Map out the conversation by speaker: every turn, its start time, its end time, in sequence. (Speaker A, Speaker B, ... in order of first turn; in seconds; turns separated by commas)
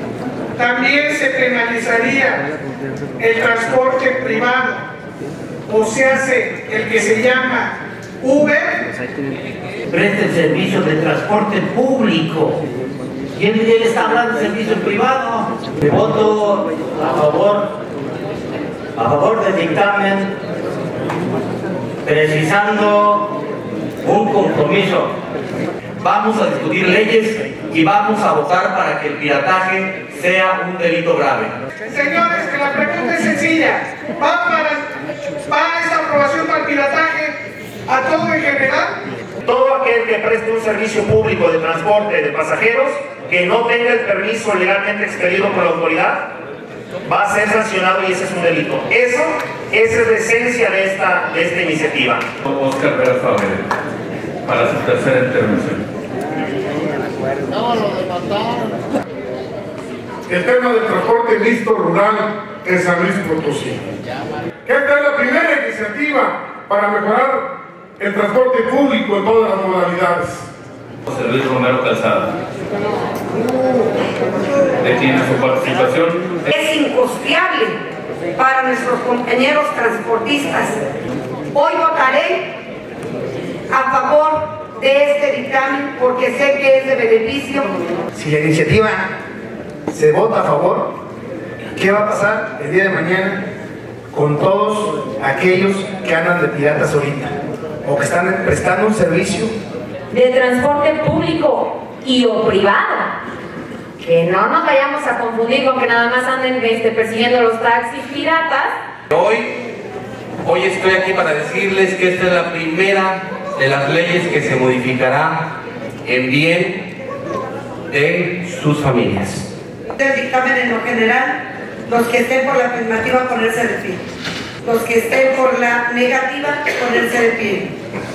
Speaker A: 0.6-2.4, Speaker A: 3.2-4.8, Speaker A: 5.7-8.9, Speaker B: 9.9-12.6, Speaker B: 13.3-17.7, Speaker B: 18.9-20.3, Speaker B: 22.0-23.3, Speaker B: 24.0-25.1, Speaker B: 26.0-31.5, Speaker A: 31.9-34.8, Speaker A: 35.5-37.3, Speaker A: 37.9-38.9, Speaker C: 39.5-46.2, Speaker C: 47.1-52.2, Speaker D: 52.5-53.6, Speaker D: 54.4-55.8, Speaker E: 60.3-63.8, Speaker E: 64.6-67.5, Speaker E: 68.0-70.5, Speaker D: 71.1-72.3, Speaker D: 74.8-76.4, Speaker F: 76.5-77.8, Speaker F: 78.3-80.8, Speaker F: 81.5-82.5, Speaker F: 83.7-87.7, Speaker G: 88.1-89.1, Speaker G: 89.9-90.9, Speaker G: 91.7-93.4, Speaker G: 94.1-99.5, Speaker H: 100.1-103.1, Speaker H: 104.0-108.7, Speaker I: 109.1-109.5, Speaker I: 110.4-115.4, Speaker I: 116.0-116.8, Speaker I: 117.9-119.4, Speaker F: 119.9-124.0, Speaker F: 124.6-127.7